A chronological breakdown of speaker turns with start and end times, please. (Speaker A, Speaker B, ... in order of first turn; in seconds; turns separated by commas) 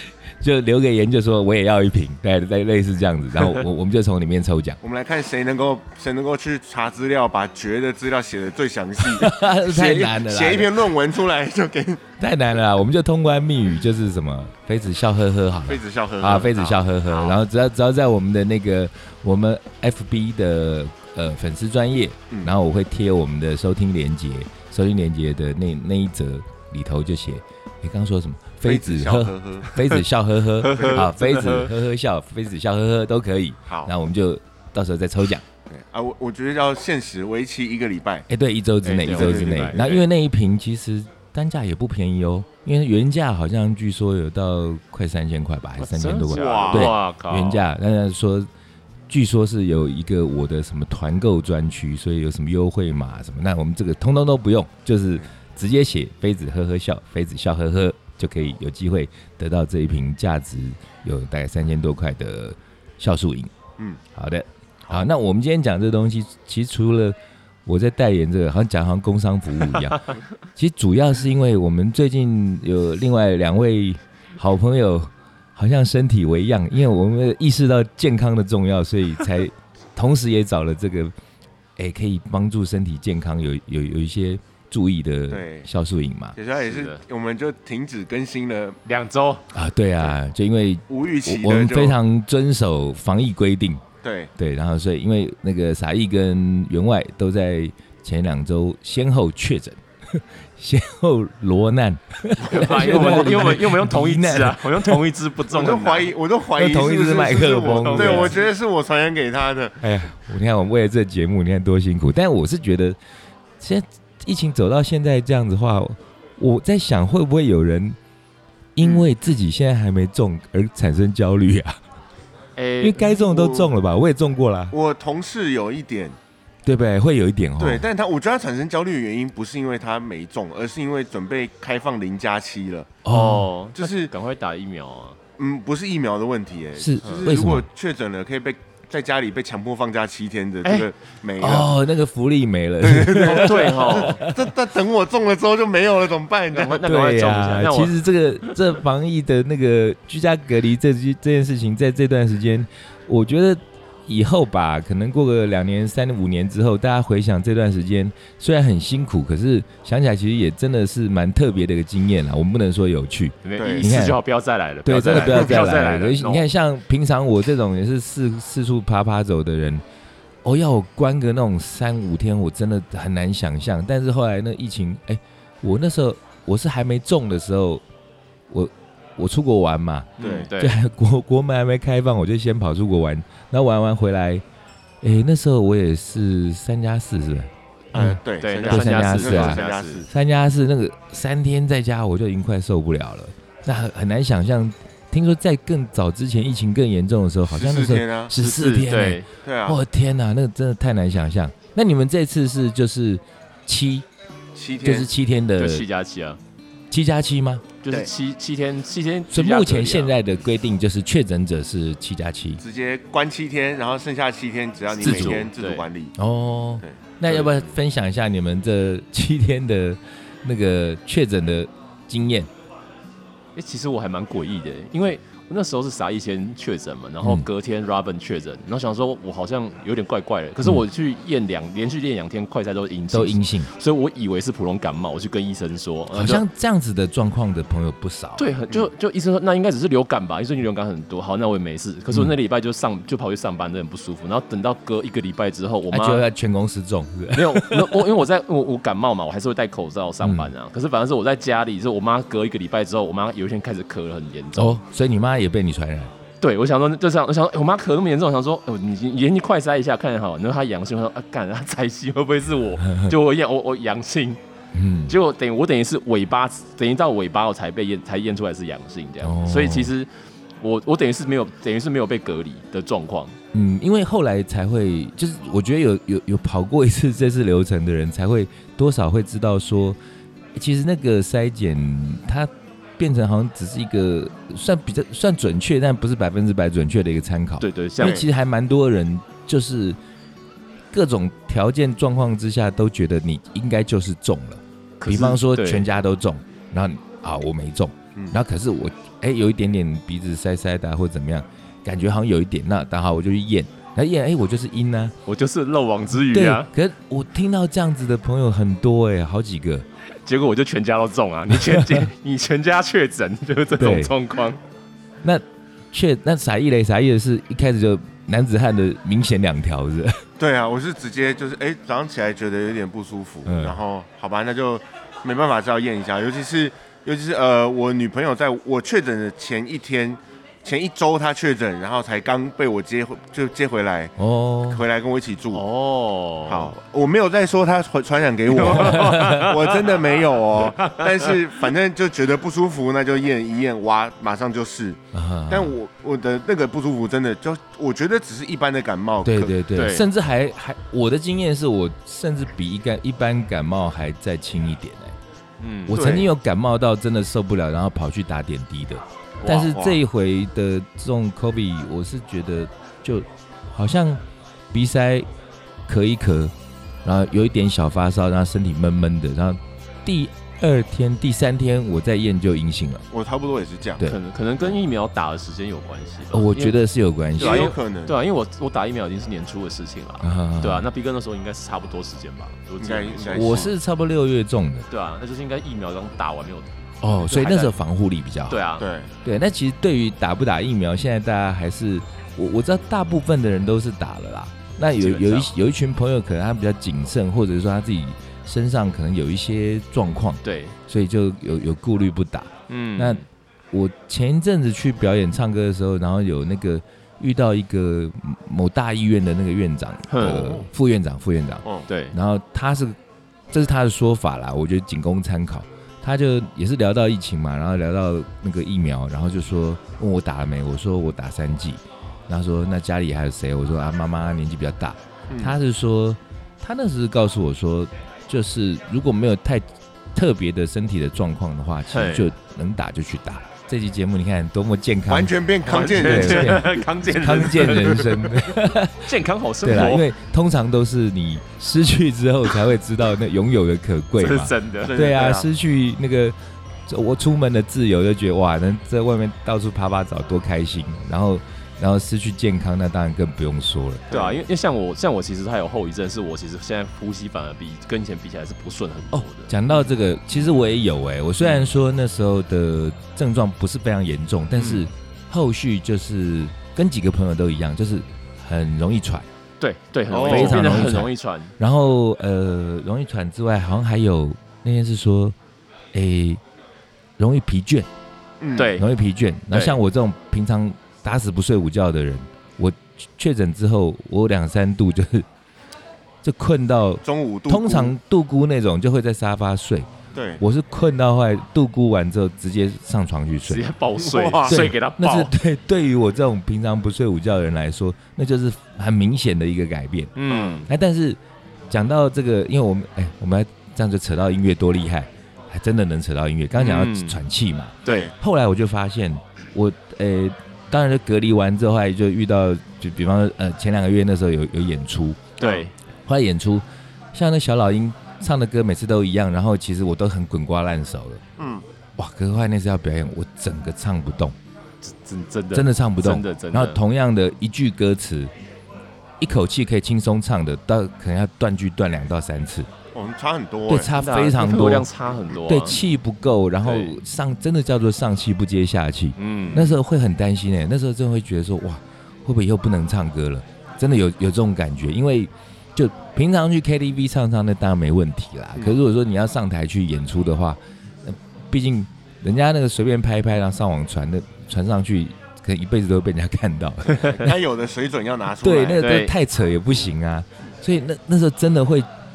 Speaker A: 0.4-4.8, Speaker B: 4.8-12.0, Speaker A: 9.0-10.9, Speaker A: 12.2-35.5, Speaker B: 15.7-17.3, Speaker B: 28.6-29.7, Speaker C: 30.6-31.7, Speaker B: 30.7-31.1, Speaker B: 33.7-33.9, Speaker B: 35.7-38.3, Speaker A: 38.3-48.5, Speaker C: 38.8-40.0, Speaker B: 39.0-39.9, Speaker C: 45.8-47.6, Speaker B: 46.3-47.0, Speaker A: 49.1-63.5, Speaker A: 64.1-81.1, Speaker A: 81.8-86.4, Speaker B: 85.3-85.7, Speaker B: 86.3-88.8, Speaker C: 86.6-87.0, Speaker C: 88.9-89.5, Speaker A: 89.5-93.8, Speaker B: 90.9-92.0, Speaker B: 94.0-94.3, Speaker A: 94.4-105.0, Speaker C: 102.4-106.1, Speaker B: 105.5-109.8, Speaker A: 106.5-108.3, Speaker C: 107.6-108.4, Speaker A: 109.8-113.0, Speaker A: 113.6-118.0, Speaker A: 118.8-121.8, Speaker B: 118.8-119.1, Speaker C: 122.6-123.1, Speaker A: 122.8-124.7, Speaker B: 123.1-123.7, Speaker B: 124.7-126.2, Speaker A: 126.7-127.8, Speaker B: 127.6-133.0, Speaker A: 133.1-133.5, Speaker C: 133.1-135.2, Speaker B: 133.8-134.1, Speaker B: 135.4-141.7, Speaker A: 136.8-137.7, Speaker A: 141.4-144.4, Speaker B: 142.8-146.8, Speaker C: 143.2-144.2, Speaker C: 146.5-148.6, Speaker A: 146.8-164.2, Speaker C: 163.4-166.4, Speaker B: 163.6-163.9, Speaker A: 164.8-169.8, Speaker B: 165.1-165.5, Speaker A: 170.4-177.8, Speaker A: 178.5-184.4, Speaker B: 180.2-180.5, Speaker C: 180.2-180.8, Speaker A: 185.0-204.1, Speaker B: 187.9-190.1, Speaker C: 188.4-190.0, Speaker B: 197.5-198.3, Speaker C: 198.3-199.3, Speaker B: 199.4-199.8, Speaker B: 204.6-205.1, Speaker A: 204.8-205.9, Speaker C: 205.6-206.4, Speaker A: 206.9-207.7, Speaker C: 207.8-210.2, Speaker A: 209.3-212.6, Speaker B: 212.6-216.2, Speaker C: 215.0-215.8, Speaker A: 215.0-215.5, Speaker A: 216.2-222.5, Speaker C: 217.3-217.6, Speaker C: 223.6-236.4, Speaker A: 233.1-233.7, Speaker A: 236.1-238.5, Speaker C: 238.4-246.2, Speaker A: 245.9-248.1, Speaker C: 247.3-254.8, Speaker A: 250.2-250.5, Speaker A: 254.6-256.1, Speaker C: 256.4-264.4, Speaker A: 262.9-263.1, Speaker A: 264.7-265.2, Speaker C: 265.1-270.1, Speaker A: 269.2-269.9, Speaker C: 270.6-273.4, Speaker A: 273.5-280.0, Speaker A: 280.6-290.0, Speaker C: 287.6-288.2, Speaker B: 288.0-288.3, Speaker A: 290.9-305.1, Speaker C: 295.0-295.9, Speaker C: 305.3-306.7, Speaker A: 306.3-309.9, Speaker C: 310.2-314.6, Speaker A: 311.5-312.1, Speaker A: 313.8-314.1, Speaker A: 315.2-320.2, Speaker B: 320.4-334.1, Speaker A: 323.5-323.8, Speaker A: 334.2-334.8, Speaker B: 334.7-335.6, Speaker C: 335.5-336.7, Speaker B: 336.5-349.6, Speaker C: 338.5-341.6, Speaker A: 338.7-339.5, Speaker A: 345.1-345.7, Speaker A: 349.2-355.2, Speaker C: 349.7-350.1, Speaker C: 355.6-356.0, Speaker A: 355.9-365.3, Speaker B: 355.9-356.3, Speaker C: 359.4-359.7, Speaker B: 359.4-360.0, Speaker A: 365.9-373.1, Speaker B: 373.1-374.0, Speaker C: 374.0-376.8, Speaker A: 376.3-377.7, Speaker C: 377.4-383.7, Speaker B: 377.4-378.1, Speaker A: 380.2-380.9, Speaker B: 382.8-383.7, Speaker A: 383.3-384.9, Speaker C: 384.9-387.8, Speaker A: 387.0-388.6, Speaker C: 388.5-388.9, Speaker B: 388.8-389.1, Speaker A: 389.2-413.0, Speaker C: 394.9-395.5, Speaker C: 400.4-400.8, Speaker C: 402.7-403.2, Speaker C: 410.1-410.6, Speaker B: 410.2-410.6, Speaker C: 411.9-412.1, Speaker A: 413.5-435.3, Speaker B: 425.3-425.6, Speaker C: 431.9-432.3, Speaker B: 435.1-436.9, Speaker C: 435.7-438.5, Speaker A: 435.9-446.4, Speaker B: 437.5-438.1, Speaker C: 439.0-440.1, Speaker C: 444.2-444.9, Speaker B: 444.8-445.5, Speaker A: 446.9-454.1, Speaker B: 454.1-454.4, Speaker C: 454.1-459.6, Speaker A: 459.1-469.3, Speaker C: 464.6-464.8, Speaker C: 469.6-471.5, Speaker B: 470.1-470.8, Speaker A: 470.2-475.4, Speaker A: 475.9-476.4, Speaker A: 477.2-477.9, Speaker B: 478.4-478.7, Speaker C: 478.6-478.9, Speaker A: 478.8-485.3, Speaker C: 479.5-479.8, Speaker A: 486.2-489.9, Speaker B: 487.0-487.9, Speaker B: 490.1-490.4, Speaker A: 490.4-493.7, Speaker C: 493.5-495.3, Speaker B: 494.0-494.7, Speaker A: 494.5-500.1, Speaker C: 500.2-500.7, Speaker B: 500.3-500.6, Speaker A: 500.7-515.3, Speaker C: 506.6-507.2, Speaker C: 507.9-508.1, Speaker B: 507.9-508.1, Speaker B: 515.4-515.7, Speaker C: 515.4-515.7, Speaker A: 516.1-521.2, Speaker B: 521.4-521.6, Speaker A: 522.0-524.4, Speaker C: 524.8-526.8, Speaker A: 525.5-528.3, Speaker A: 529.2-532.7, Speaker B: 532.9-533.9, Speaker A: 533.7-534.9, Speaker C: 533.9-535.8, Speaker A: 535.5-557.3, Speaker C: 536.6-536.9, Speaker C: 539.2-539.8, Speaker B: 556.9-558.9, Speaker A: 558.4-561.9, Speaker C: 558.8-559.1